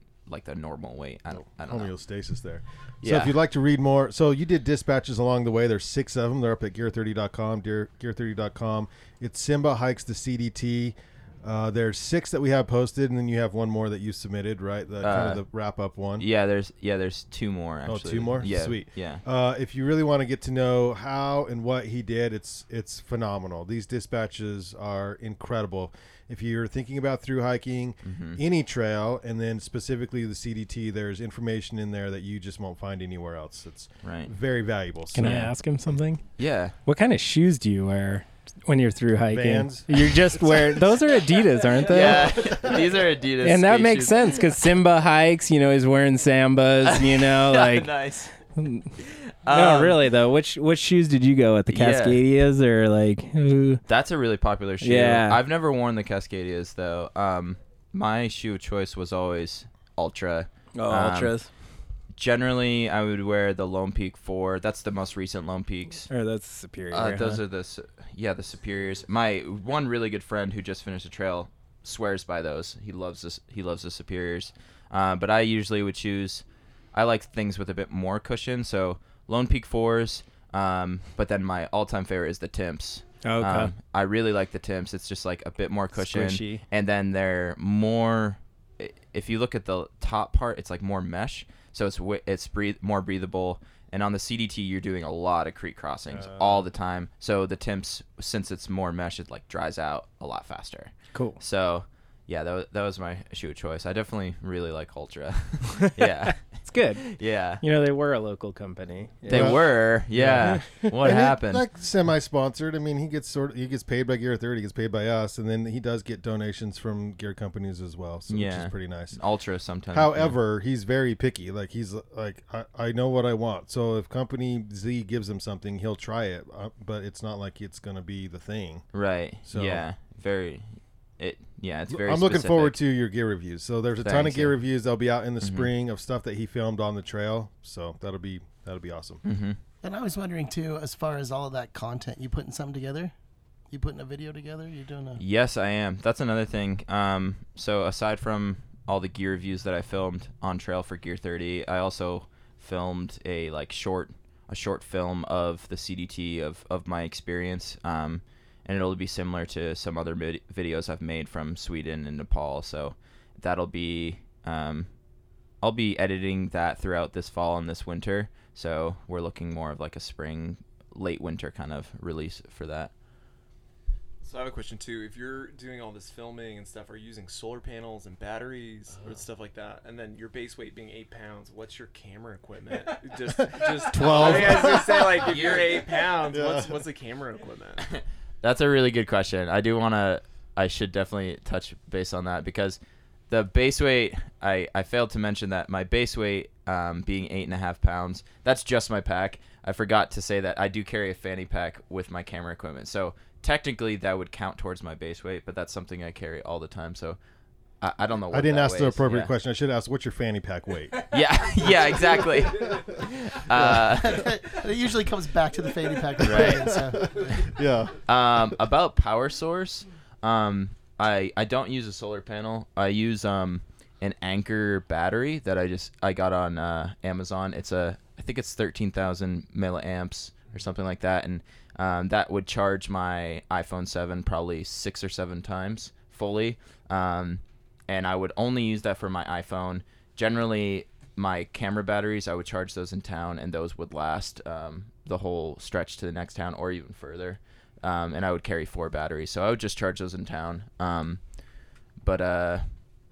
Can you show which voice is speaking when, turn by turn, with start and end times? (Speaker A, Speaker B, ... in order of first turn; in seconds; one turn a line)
Speaker A: 0.3-1.9
Speaker B: 1.3-16.3
Speaker A: 3.0-3.4
Speaker A: 15.0-15.4
Speaker A: 16.2-19.2
Speaker B: 17.9-35.5
Speaker A: 28.0-28.4
Speaker A: 34.0-34.3
Speaker C: 35.1-36.2
Speaker A: 35.2-35.5
Speaker A: 36.4-36.7
Speaker C: 36.9-42.6
Speaker B: 39.3-41.1
Speaker A: 41.7-44.6
Speaker B: 41.9-42.9
Speaker C: 43.4-47.9
Speaker A: 46.8-48.4
Speaker C: 48.5-48.9
Speaker A: 49.0-50.1
Speaker C: 49.5-53.8
Speaker A: 51.7-52.2
Speaker A: 53.9-61.4
Speaker C: 54.8-55.4
Speaker C: 60.7-61.5
Speaker A: 62.2-66.1
Speaker C: 66.1-67.4
Speaker A: 66.9-106.4
Speaker C: 83.2-83.7
Speaker C: 86.0-86.6
Speaker C: 101.1-101.4
Speaker C: 105.8-107.0
Speaker A: 107.0-107.6
Speaker C: 107.6-109.7
Speaker A: 109.3-111.6
Speaker B: 109.3-119.2
Speaker A: 118.3-120.4
Speaker B: 119.9-128.9
Speaker A: 128.9-132.8
Speaker B: 129.4-129.9
Speaker B: 131.9-139.2
Speaker A: 134.0-134.5
Speaker A: 135.4-135.7
Speaker A: 139.2-139.6
Speaker D: 139.8-143.1
Speaker D: 143.7-145.2
Speaker A: 145.2-164.9
Speaker A: 165.6-172.9
Speaker E: 174.2-187.9
Speaker A: 178.9-179.2
Speaker B: 183.4-185.3
Speaker A: 184.0-184.4
Speaker A: 185.2-186.0
Speaker B: 186.3-186.7
Speaker A: 187.8-207.2
Speaker A: 207.8-209.3
Speaker B: 208.3-211.1
Speaker A: 211.1-214.3
Speaker B: 212.6-212.9
Speaker D: 213.6-217.5
Speaker A: 216.2-216.7
Speaker B: 216.2-218.0
Speaker A: 218.1-251.2
Speaker A: 252.0-252.7